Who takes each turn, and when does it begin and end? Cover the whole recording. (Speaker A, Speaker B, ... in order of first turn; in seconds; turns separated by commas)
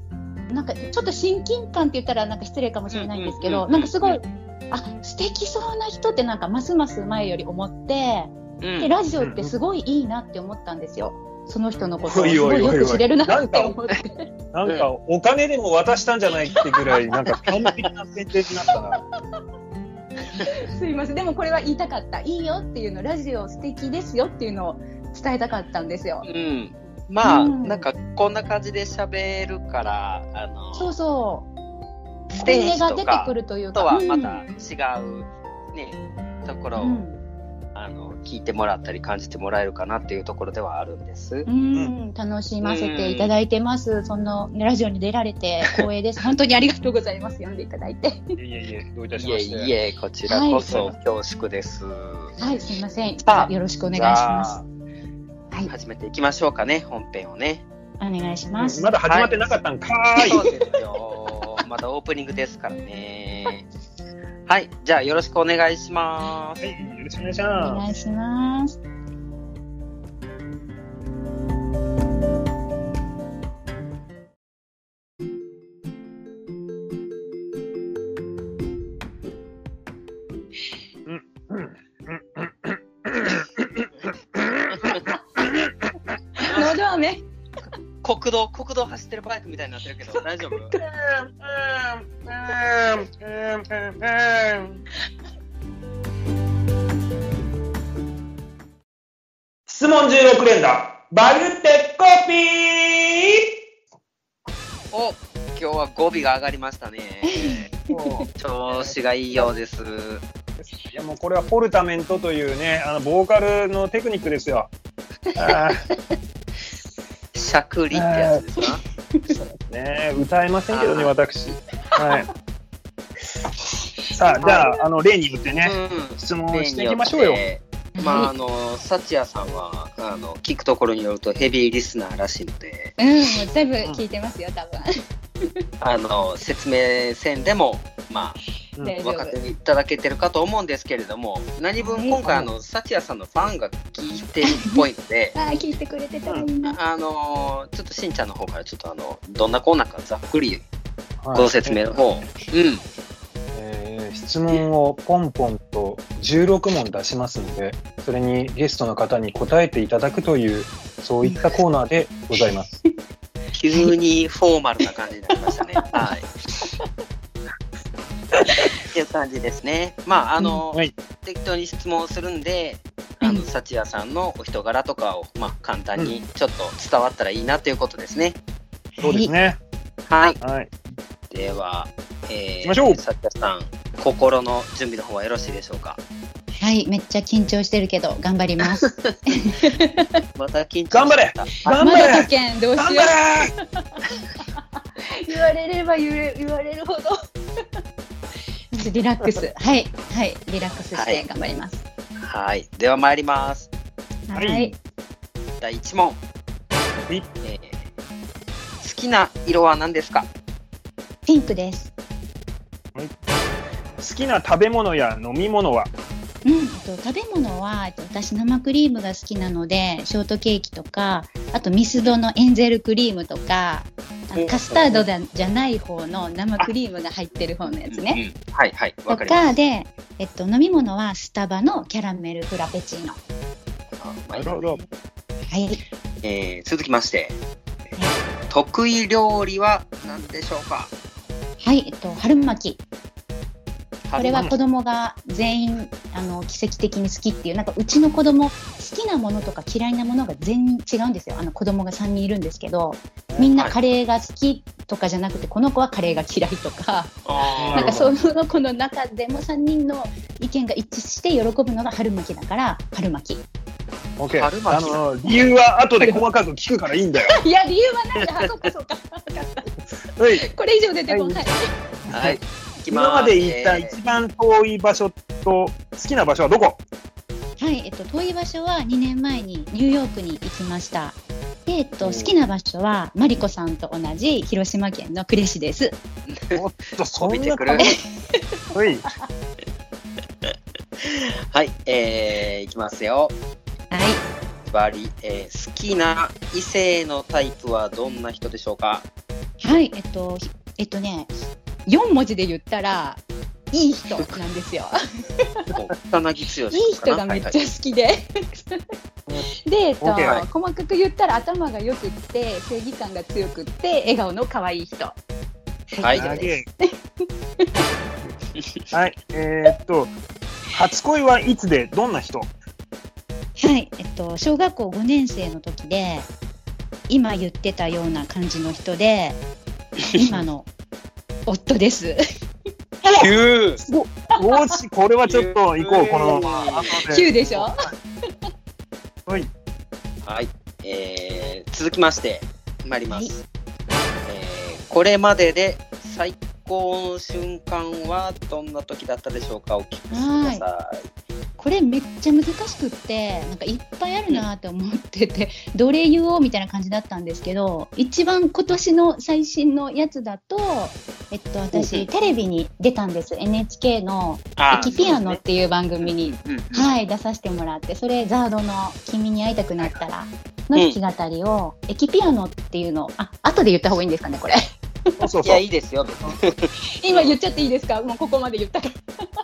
Speaker A: 0.5-14.3, Speaker B: 2.9-4.2, Speaker B: 8.6-8.9, Speaker C: 9.2-9.5, Speaker C: 12.0-13.8, Speaker C: 14.5-19.0, Speaker A: 20.4-26.2, Speaker B: 26.2-30.9, Speaker A: 27.2-27.9, Speaker A: 30.7-31.5, Speaker B: 32.3-37.0, Speaker A: 32.4-34.4, Speaker A: 36.8-37.2, Speaker B: 37.7-41.5, Speaker A: 41.5-48.3, Speaker B: 42.6-43.3, Speaker C: 48.4-49.7, Speaker B: 49.1-52.4, Speaker A: 50.2-50.9, Speaker A: 52.4-54.6, Speaker B: 53.2-54.6, Speaker B: 55.7-57.6, Speaker A: 58.0-58.9, Speaker C: 58.6-60.4, Speaker B: 59.1-59.5, Speaker A: 60.2-60.7, Speaker B: 60.2-63.7, Speaker B: 64.5-66.6, Speaker C: 66.6-67.8, Speaker A: 67.6-68.8, Speaker C: 81.0-85.8, Speaker A: 86.3-87.2, Speaker B: 86.5-86.7, Speaker B: 88.0-90.7, Speaker A: 90.1-90.8, Speaker C: 90.8-94.8, Speaker C: 99.7-103.5, Speaker B: 104.9-107.7, Speaker A: 107.2-108.3, Speaker C: 107.9-109.5, Speaker B: 108.4-110.2, Speaker C: 110.6-114.7, Speaker C: 115.4-115.8, Speaker B: 117.3-118.8, Speaker C: 117.9-118.4, Speaker A: 118.6-119.4, Speaker C: 119.3-122.3, Speaker B: 120.7-121.1, Speaker A: 122.0-122.2, Speaker C: 124.1-127.4, Speaker A: 124.2-124.8, Speaker B: 124.4-124.7, Speaker B: 125.6-132.9, Speaker A: 128.0-128.3, Speaker A: 133.0-134.9, Speaker B: 135.8-138.4, Speaker A: 138.8-139.3, Speaker B: 139.0-145.4, Speaker A: 141.8-142.2, Speaker C: 142.2-142.5, Speaker A: 144.4-146.8, Speaker B: 146.6-150.6, Speaker C: 151.2-151.8, Speaker B: 151.3-152.8, Speaker C: 153.5-162.7, Speaker A: 161.2-161.5, Speaker B: 163.5-166.3, Speaker A: 165.8-166.0, Speaker B: 168.8-178.4, Speaker A: 179.0-179.3, Speaker C: 179.0-179.6, Speaker B: 180.1-180.4, Speaker C: 180.4-180.7, Speaker B: 181.3-186.0, Speaker C: 182.6-183.0, Speaker A: 186.6-190.1, Speaker B: 188.8-189.2, Speaker B: 190.3-191.8, Speaker C: 190.9-193.5, Speaker A: 191.7-194.0, Speaker A: 194.6-197.2, Speaker A: 198.7-201.8, Speaker B: 200.9-201.2, Speaker B: 202.2-203.7, Speaker A: 204.3-204.7, Speaker C: 204.3-204.7, Speaker B: 205.6-206.2, Speaker B: 207.4-207.8, Speaker B: 208.8-210.3, Speaker A: 211.2-211.9, Speaker C: 214.0-215.9, Speaker A: 216.4-228.2, Speaker B: 224.3-225.0, Speaker B: 227.9-229.5, Speaker A: 229.1-233.2, Speaker B: 234.0-234.8, Speaker C: 234.3-234.8, Speaker A: 235.5-235.8, Speaker B: 236.2-237.4, Speaker B: 238.5-240.9, Speaker A: 241.6-242.8, Speaker B: 244.1-244.5, Speaker A: 244.2-257.2, Speaker C: 253.3-253.5, Speaker B: 257.2-258.1, Speaker C: 257.6-258.1, Speaker A: 257.7-263.4, Speaker C: 264.2-267.3, Speaker B: 264.3-265.1, Speaker A: 267.3-269.7, Speaker C: 270.1-270.4, Speaker A: 270.4-271.7, Speaker C: 271.1-271.4, Speaker C: 272.1-276.8, Speaker B: 272.1-273.9, Speaker A: 277.6-286.0, Speaker C: 282.0-282.3, Speaker B: 286.3-286.6, Speaker C: 286.5-287.9, Speaker B: 287.2-287.9, Speaker A: 287.8-288.4, Speaker C: 288.7-289.0, Speaker B: 291.0-293.4, Speaker A: 293.9-294.2, Speaker B: 294.7-299.1, Speaker A: 299.6-301.3, Speaker A: 301.9-304.9, Speaker B: 305.7-307.6, Speaker A: 306.7-308.8, Speaker A: 309.6-315.2, Speaker C: 310.0-310.4, Speaker B: 310.2-310.4, Speaker A: 315.9-316.9, Speaker B: 316.0-316.3, Speaker C: 316.1-316.6, Speaker C: 318.9-320.1, Speaker C: 320.7-322.5, Speaker A: 323.6-326.3, Speaker A: 327.1-329.4, Speaker A: 330.1-330.7, Speaker A: 331.5-332.2, Speaker B: 333.1-333.8, Speaker C: 333.8-337.7, Speaker A: 334.5-334.7, Speaker B: 335.2-337.0, Speaker A: 337.1-337.8, Speaker B: 340.2-343.4, Speaker B: 344.2-351.0, Speaker A: 350.1-350.6, Speaker A: 351.6-374.6, Speaker B: 361.7-362.1, Speaker B: 364.6-365.4, Speaker B: 366.0-366.9, Speaker C: 375.2-375.6, Speaker B: 375.4-377.4, Speaker A: 377.0-379.0